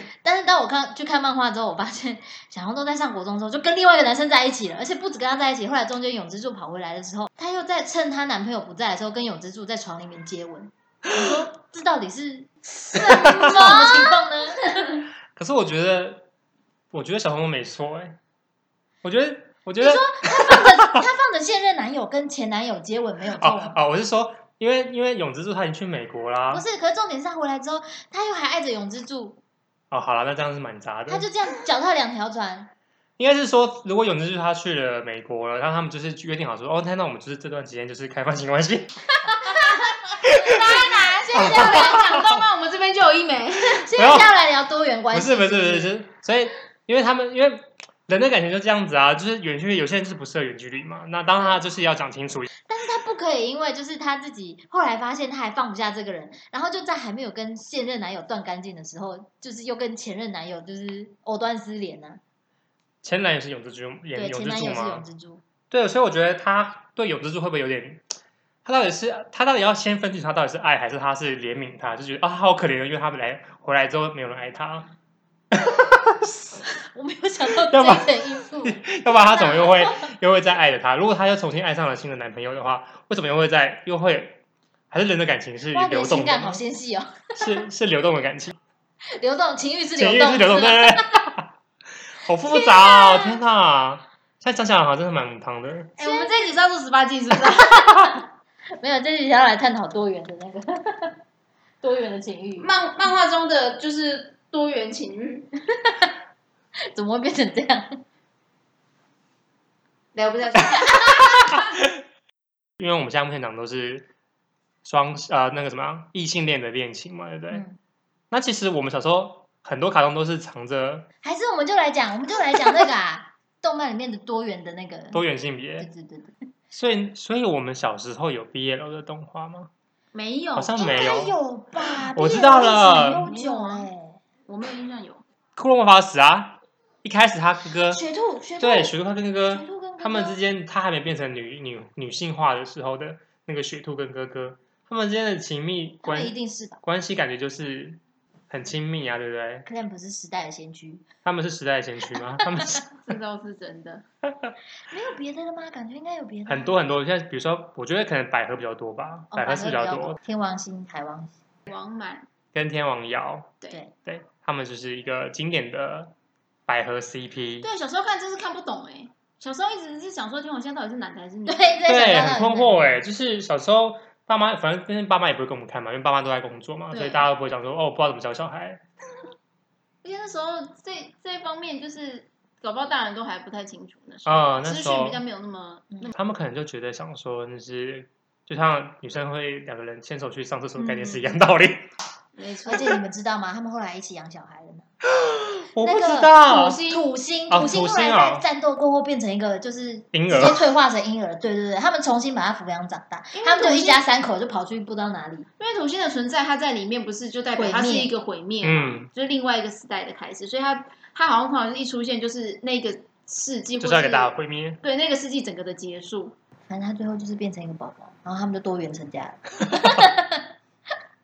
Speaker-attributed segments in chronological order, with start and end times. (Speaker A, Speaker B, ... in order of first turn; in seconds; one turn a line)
Speaker A: 0.2-15.0
Speaker B: 12.9-14.1
Speaker C: 13.2-13.8
Speaker C: 15.3-16.2
Speaker C: 16.9-18.2
Speaker C: 19.0-20.9
Speaker A: 19.8-23.8
Speaker C: 23.4-26.6
Speaker A: 26.5-29.4
Speaker C: 29.9-31.3
Speaker A: 31.1-32.7
Speaker C: 33.2-38.9
Speaker C: 40.2-40.8
Speaker B: 40.3-43.9
Speaker C: 41.3-42.3
Speaker A: 43.8-45.9
Speaker C: 44.0-44.3
Speaker C: 45.1-52.5
Speaker A: 52.7-62.2
Speaker C: 63.0-65.0
Speaker A: 64.1-65.4
Speaker C: 65.7-68.1
Speaker C: 68.6-74.9
Speaker C: 75.5-76.6
Speaker A: 76.9-80.1
Speaker C: 77.6-84.4
Speaker C: 84.9-86.6
Speaker A: 85.7-87.5
Speaker C: 87.4-88.6
Speaker A: 89.1-91.2
Speaker C: 90.0-91.5
Speaker C: 92.2-95.9
Speaker A: 92.5-93.3
Speaker B: 96.0-98.0
Speaker A: 96.0-96.3
Speaker A: 98.8-101.2
Speaker A: 101.8-102.7
Speaker B: 102.6-105.5
Speaker A: 106.9-108.0
Speaker B: 110.1-111.6
Speaker C: 112.8-114.1
Speaker C: 114.8-117.6
Speaker A: 117.5-117.8
Speaker C: 118.3-121.1
Speaker A: 121.2-125.2
Speaker C: 125.1-125.9
Speaker A: 125.8-126.4
Speaker C: 126.7-129.7
Speaker B: 130.1-130.9
Speaker C: 130.6-133.3
Speaker A: 130.8-134.2
Speaker B: 133.2-133.9
Speaker B: 134.4-135.2
Speaker C: 135.6-138.0
Speaker A: 137.9-138.9
Speaker C: 138.6-149.7
Speaker A: 139.5-140.4
Speaker A: 146.0-146.8
Speaker A: 149.7-151.0
Speaker C: 151.2-152.8
Speaker B: 153.0-154.0
Speaker A: 154.9-156.8
Speaker C: 156.5-160.2
Speaker A: 159.3-161.3
Speaker B: 161.7-162.3
Speaker C: 162.5-166.1
Speaker C: 166.7-167.7
Speaker B: 167.6-171.8
Speaker A: 171.5-173.0
Speaker C: 171.8-178.8
Speaker B: 176.9-177.3
Speaker B: 180.0-186.1
Speaker C: 184.2-185.2
Speaker C: 186.1-191.9
Speaker B: 190.8-191.3
Speaker B: 192.3-192.9
Speaker A: 192.7-194.9
Speaker C: 195.2-196.8
Speaker A: 195.8-205.5
Speaker B: 196.4-197.0
Speaker C: 197.5-198.4
Speaker C: 200.1-200.6
Speaker B: 203.3-204.0
Speaker B: 205.6-216.3
Speaker A: 207.6-208.1
Speaker C: 208.6-209.1
Speaker C: 213.8-214.8
Speaker A: 216.7-220.4